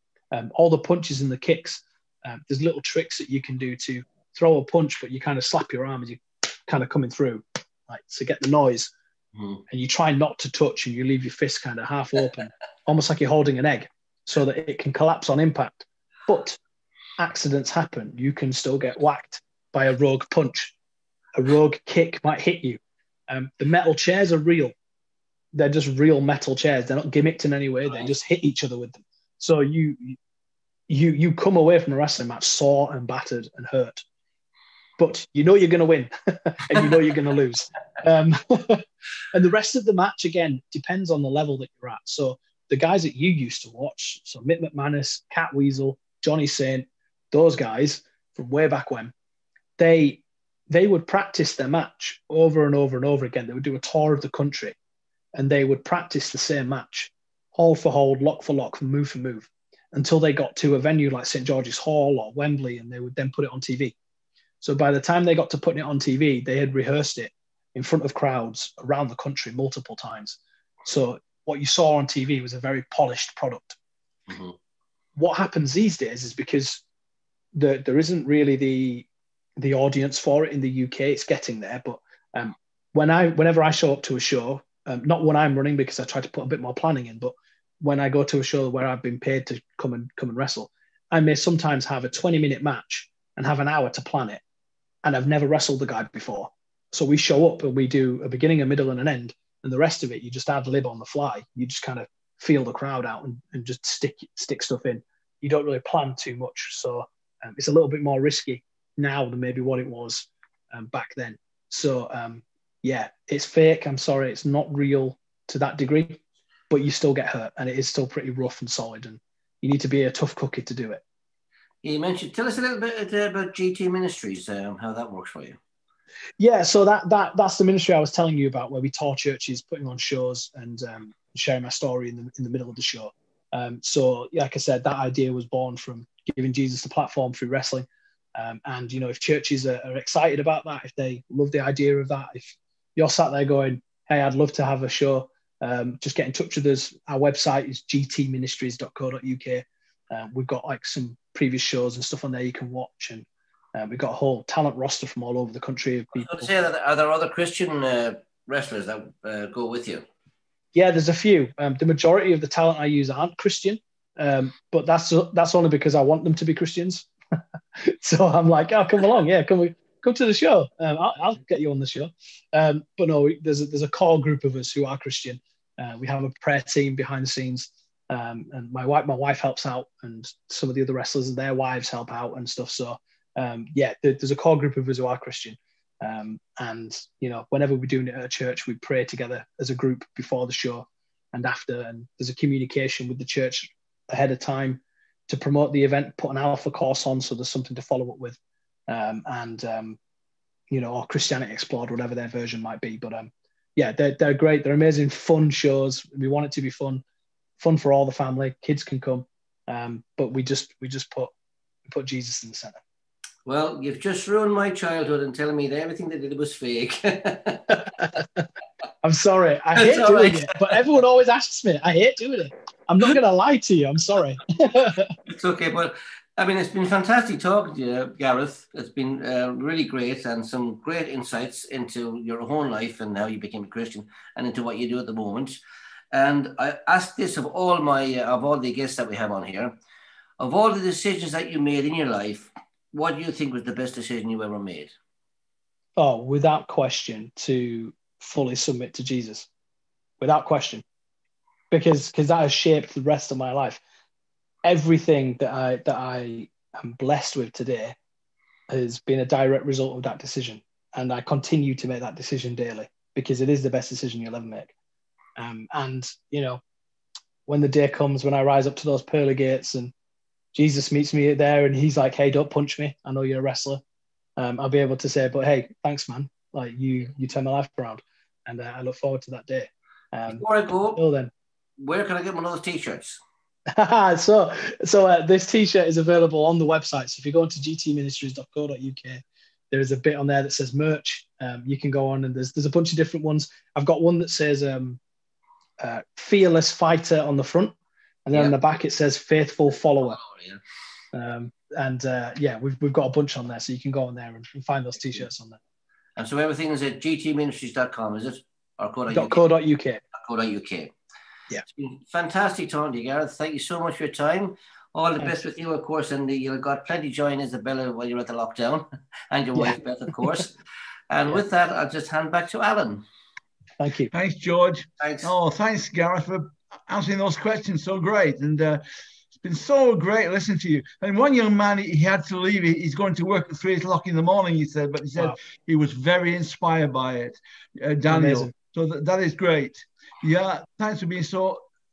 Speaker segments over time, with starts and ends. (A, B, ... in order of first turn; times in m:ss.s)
0:00.3-0:08.9 A
0:09.7-0:16.6 A
0:17.2-0:20.8 A
0:21.4-0:24.7 A
0:25.5-0:30.2 A
0:30.9-0:34.0 A
0:35.0-0:49.1 A
0:49.8-0:54.8 A
0:55.4-1:04.0 A
1:04.6-1:13.8 A
1:14.3-1:14.6 B
1:15.2-1:16.8 A
1:17.5-1:19.1 A
1:19.6-1:34.4 A
1:35.0-2:01.0 A
2:01.8-2:05.6 B
2:06.4-2:36.5 A
2:36.2-2:40.1 B
2:40.7-2:47.1 A
2:47.8-3:18.4 A
3:18.9-3:20.0 A
3:20.7-3:27.0 A
3:27.6-3:31.3 A
3:31.9-3:32.8 A
3:33.4-3:37.8 B
3:39.0-3:45.1 A
3:39.8-3:40.5 B
3:45.3-3:55.6 B
3:56.1-3:59.8 B
4:00.4-4:04.9 B
4:06.0-4:09.5 A
4:10.2-4:10.8 A
4:11.7-4:13.8 A
4:14.6-4:18.0 A
4:18.7-4:24.7 A
4:25.4-4:26.6 A
4:27.5-4:29.9 A
4:30.5-4:33.8 A
4:34.4-4:41.3 A
4:40.3-4:41.0 B
4:41.8-4:43.2 B
4:43.7-4:55.0 A
4:55.8-5:00.2 A
5:00.0-5:00.6 B
5:01.1-5:05.6 A
5:06.2-5:09.4 B
5:09.1-5:10.0 A
5:10.1-5:10.9 B
5:11.7-5:20.5 B
5:21.1-5:23.0 B
5:23.8-5:24.1 A
5:24.1-5:28.8 C
5:25.0-5:25.3 B
5:29.4-5:41.6 C
5:38.1-5:38.5 A